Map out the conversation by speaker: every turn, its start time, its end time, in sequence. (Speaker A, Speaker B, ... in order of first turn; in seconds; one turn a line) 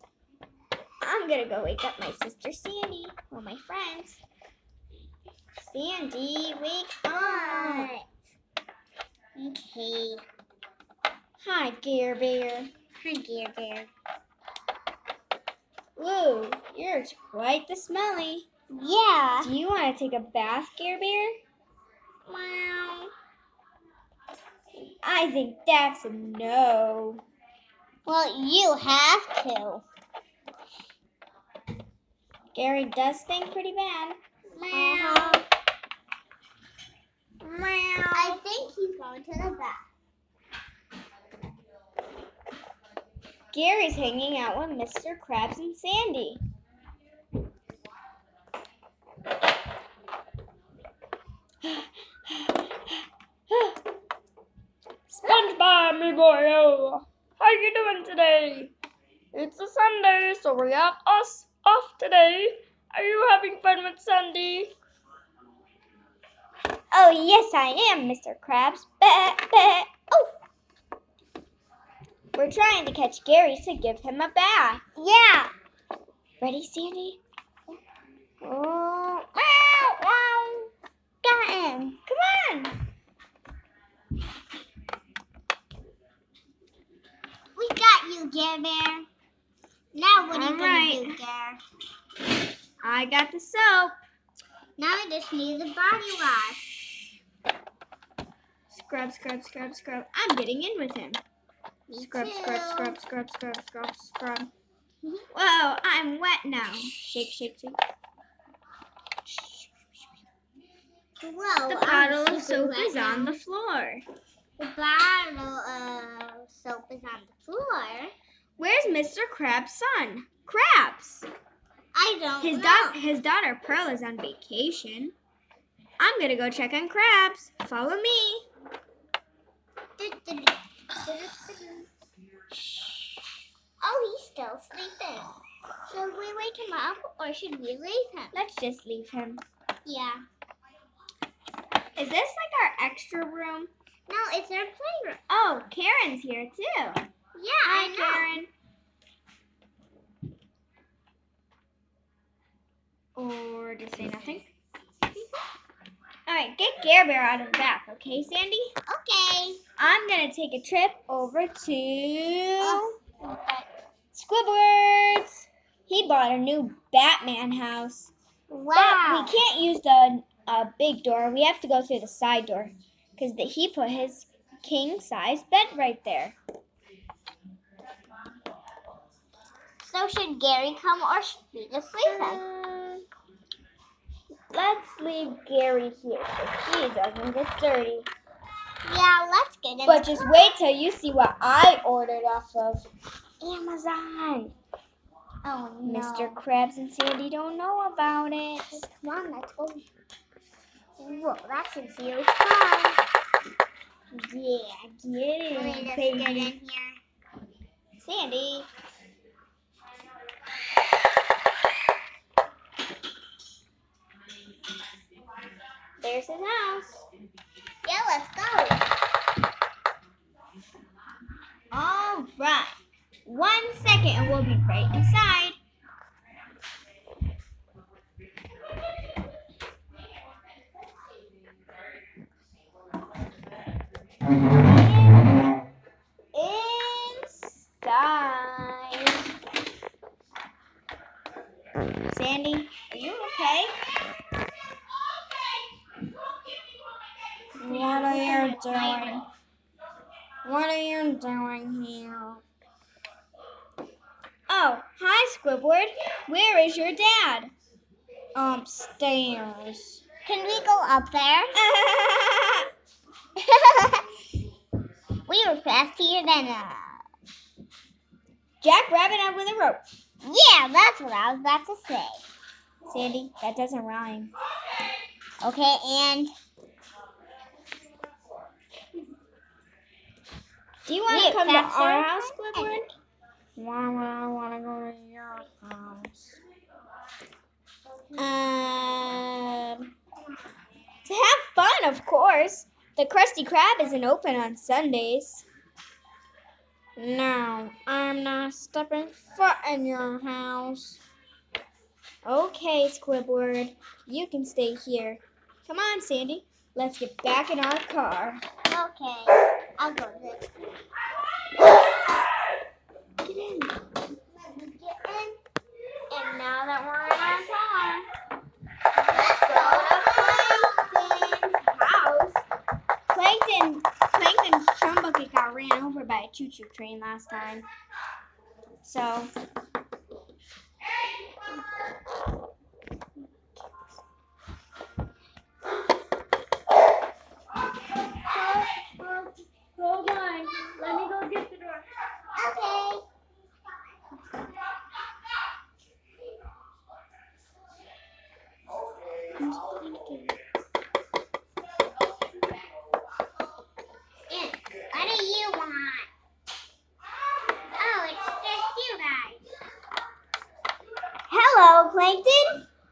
Speaker A: 1.0-4.2
Speaker A: 5.6-7.9
Speaker B: 7.1-8.0
Speaker B: 9.4-10.2
Speaker A: 11.4-12.7
Speaker B: 13.0-13.9
Speaker A: 16.0-18.5
Speaker B: 18.7-19.5
Speaker A: 19.4-21.4
Speaker B: 22.3-23.1
Speaker A: 25.0-27.2
Speaker B: 28.1-29.8
Speaker A: 32.5-34.2
Speaker B: 34.5-35.5
Speaker A: 34.7-35.5
Speaker A: 37.4-38.4
Speaker B: 38.1-39.9
Speaker A: 43.5-46.4
Speaker A: 51.6-52.9
Speaker A: 53.5-53.8
Speaker A: 55.1-58.7
Speaker A: 59.3-64.7
Speaker A: 66.9-70.3
Speaker A: 72.3-74.8
Speaker B: 75.0-75.5
Speaker A: 76.4-77.2
Speaker B: 78.4-80.6
Speaker B: 81.2-82.0
Speaker A: 82.1-82.8
Speaker B: 87.6-89.1
Speaker B: 89.9-91.6
Speaker A: 90.3-91.2
Speaker A: 92.8-93.9
Speaker B: 94.8-96.7
Speaker A: 98.7-101.2
Speaker B: 101.9-103.0
Speaker A: 102.0-104.5
Speaker A: 105.3-107.8
Speaker A: 109.3-109.7
Speaker B: 111.2-113.4
Speaker A: 111.7-114.0
Speaker B: 114.6-118.1
Speaker A: 118.6-121.3
Speaker B: 121.9-123.0
Speaker A: 122.4-125.2
Speaker A: 126.0-128.5
Speaker B: 130.0-131.8
Speaker B: 133.8-135.3
Speaker B: 135.9-138.3
Speaker A: 138.3-139.4
Speaker B: 139.8-140.2
Speaker A: 142.0-143.7
Speaker B: 144.1-145.2
Speaker A: 145.3-147.0
Speaker B: 147.4-148.3
Speaker A: 147.6-148.5
Speaker A: 153.2-154.5
Speaker A: 156.3-158.7
Speaker B: 158.9-159.6
Speaker A: 159.8-163.0
Speaker B: 162.6-163.7
Speaker A: 164.1-168.1
Speaker B: 168.5-169.4
Speaker A: 168.8-176.4
Speaker B: 179.8-182.4
Speaker A: 182.0-183.0
Speaker A: 184.5-188.1
Speaker B: 188.8-190.5
Speaker A: 189.8-192.8
Speaker A: 193.4-194.5
Speaker B: 195.4-196.4
Speaker A: 195.8-198.8
Speaker B: 198.7-199.9
Speaker B: 201.0-203.0
Speaker A: 204.1-206.5
Speaker B: 205.5-207.0
Speaker A: 208.0-208.7
Speaker A: 216.0-217.1
Speaker B: 217.8-218.9
Speaker A: 221.7-222.8
Speaker A: 223.3-225.6
Speaker A: 234.6-235.4
Speaker A: 236.3-239.3
Speaker A: 242.1-243.7
Speaker A: 247.6-249.3
Speaker B: 247.6-249.2
Speaker A: 250.4-252.4
Speaker A: 254.5-257.5
Speaker A: 258.4-260.0
Speaker B: 260.2-261.6
Speaker A: 261.5-262.6
Speaker B: 263.4-264.0
Speaker B: 265.3-267.0
Speaker A: 268.6-269.8
Speaker B: 270.2-272.2
Speaker A: 272.9-274.3
Speaker B: 275.4-276.3
Speaker A: 280.9-282.9
Speaker B: 281.1-282.9
Speaker A: 283.6-286.4
Speaker A: 288.2-289.9
Speaker A: 291.1-295.4
Speaker A: 297.0-301.0
Speaker A: 302.2-308.4
Speaker B: 308.7-310.6
Speaker A: 313.2-313.8
Speaker B: 314.3-315.4
Speaker A: 316.1-318.1
Speaker B: 319.1-320.6
Speaker A: 319.1-322.4
Speaker A: 323.1-327.7
Speaker A: 328.8-329.3
Speaker A: 339.8-341.4
Speaker B: 342.4-343.0
Speaker A: 349.4-350.3
Speaker B: 354.3-356.1
Speaker B: 357.8-359.4
Speaker A: 361.3-362.6